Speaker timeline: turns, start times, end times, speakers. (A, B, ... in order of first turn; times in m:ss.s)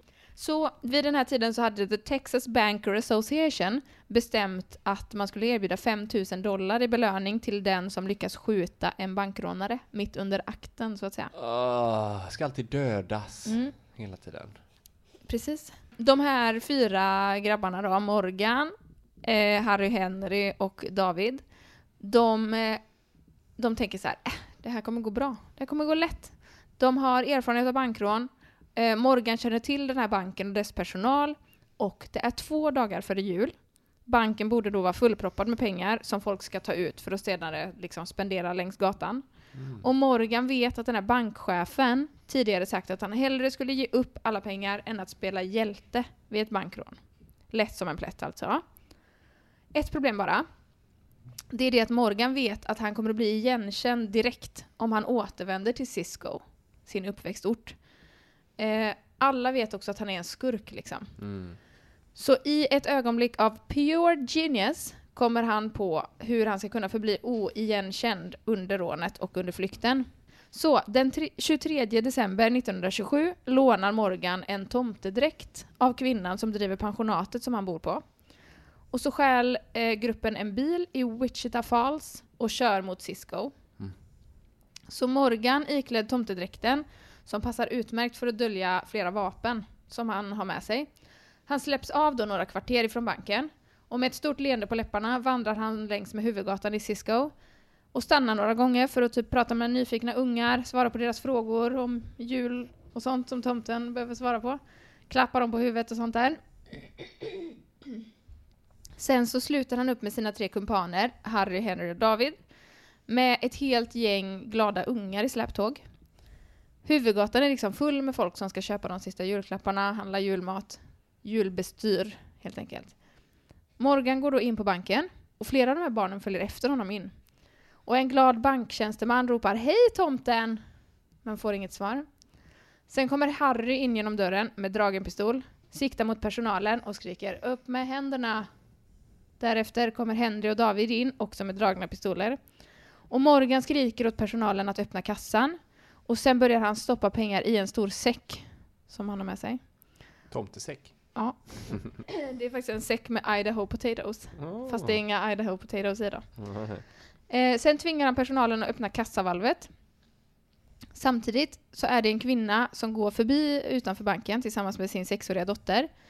0:00.4-0:11.3 A
0:11.3-0:14.6 B
0:13.5-0:13.7 A
0:15.3-0:21.4 A
0:22.0-0:22.8 A
0:23.6-0:33.5 A
0:34.1-0:39.2 A
0:39.6-0:39.8 B
0:39.8-0:47.0 A
0:47.5-0:48.6 A
0:49.7-0:50.5 A
0:51.5-0:57.8 A
0:58.6-1:01.1 A
1:01.2-1:01.6 B
1:02.2-1:18.0 A
1:18.9-1:23.5 A
1:24.9-1:30.9 A
1:31.5-1:37.3 A
1:37.9-1:46.4 A
1:49.0-1:52.4 A
1:53.1-1:55.8 A
1:56.8-2:03.0 A
2:03.8-2:07.1 A
2:07.8-2:10.6 A
2:11.2-2:12.1 A
2:12.9-2:18.5 A
2:19.4-2:22.4 A
2:23.1-2:29.6 A
2:30.3-2:31.2 B
2:31.2-2:36.3 A
2:34.4-2:35.0 B
2:36.4-2:36.8 B
2:37.3-2:39.7 A
2:41.0-2:45.9 A